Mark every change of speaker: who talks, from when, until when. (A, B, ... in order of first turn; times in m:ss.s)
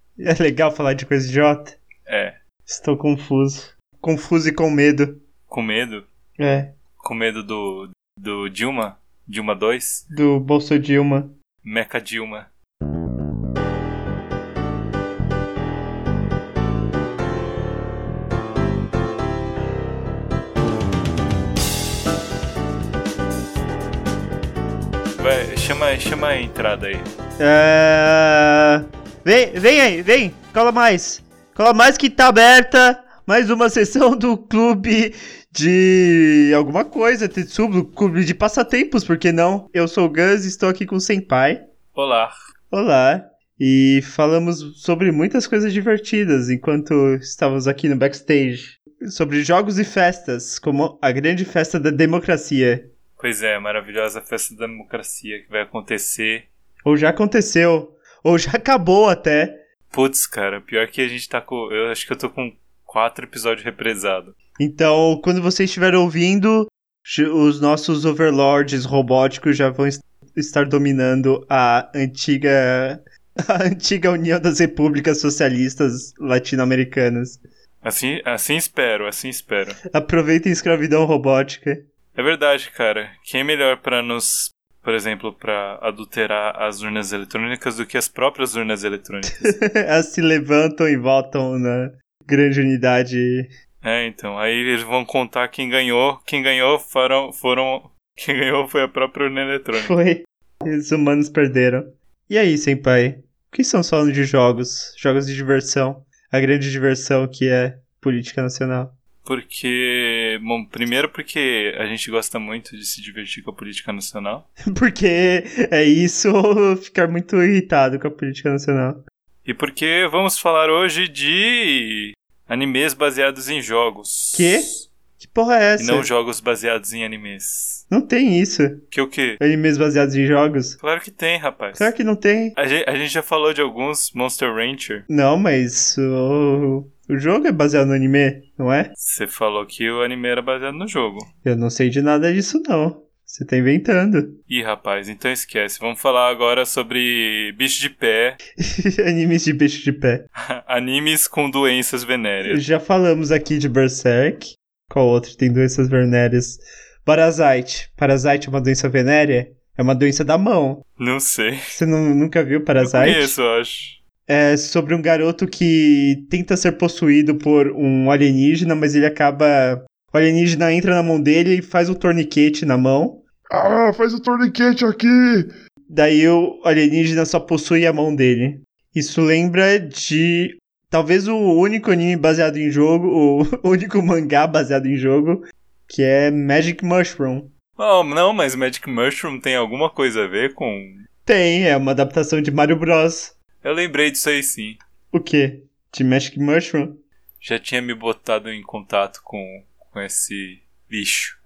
0:00.2-0:01.8 A
0:02.0-0:02.4 B
0:02.7-0:05.2 A
0:05.5-0:06.1 B
0:06.4-0:06.7 A
0:07.0-0:10.0 B
0:10.1-0:11.3 A
0:11.6-0:12.5 B
0:25.2-0:27.1 B
0:27.4-0:41.6 A
0:41.9-0:42.3 B
0:42.7-0:52.9 A
0:53.2-0:56.5 B
0:56.8-0:59.6 A
0:59.9-1:04.3 B
1:04.6-1:17.4 A
1:17.8-1:19.8 B
1:19.9-1:21.8 A
1:22.1-1:29.6 B
1:29.3-1:33.5 A
1:33.8-1:39.9 B
1:39.8-1:48.9 A
1:49.2-1:54.4 B
1:54.6-1:59.0 A
1:59.4-2:04.9 B
2:04.3-2:06.1 A
2:05.8-2:07.8 B
2:07.9-2:08.8 A
2:08.9-2:09.4 B
2:09.4-2:10.8 A
2:10.8-2:11.9 B
2:11.7-2:12.6 A
2:12.6-2:15.0 B
2:15.1-2:18.9 A
2:19.0-2:21.3 B
2:21.4-2:24.4 A
2:24.5-2:28.4 B
2:28.6-2:30.2 A
2:30.4-2:32.6 B
2:32.5-2:40.8 A
2:41.0-2:41.8 B
2:41.7-2:43.4 A
2:42.8-2:44.0 B
2:44.3-2:53.2 A
2:53.5-2:55.5 C
2:55.9-3:07.5 A
3:07.8-3:11.1 B
3:11.2-3:13.3 A
3:13.6-3:14.8 B
3:15.1-3:17.0 A
3:17.4-3:21.4 B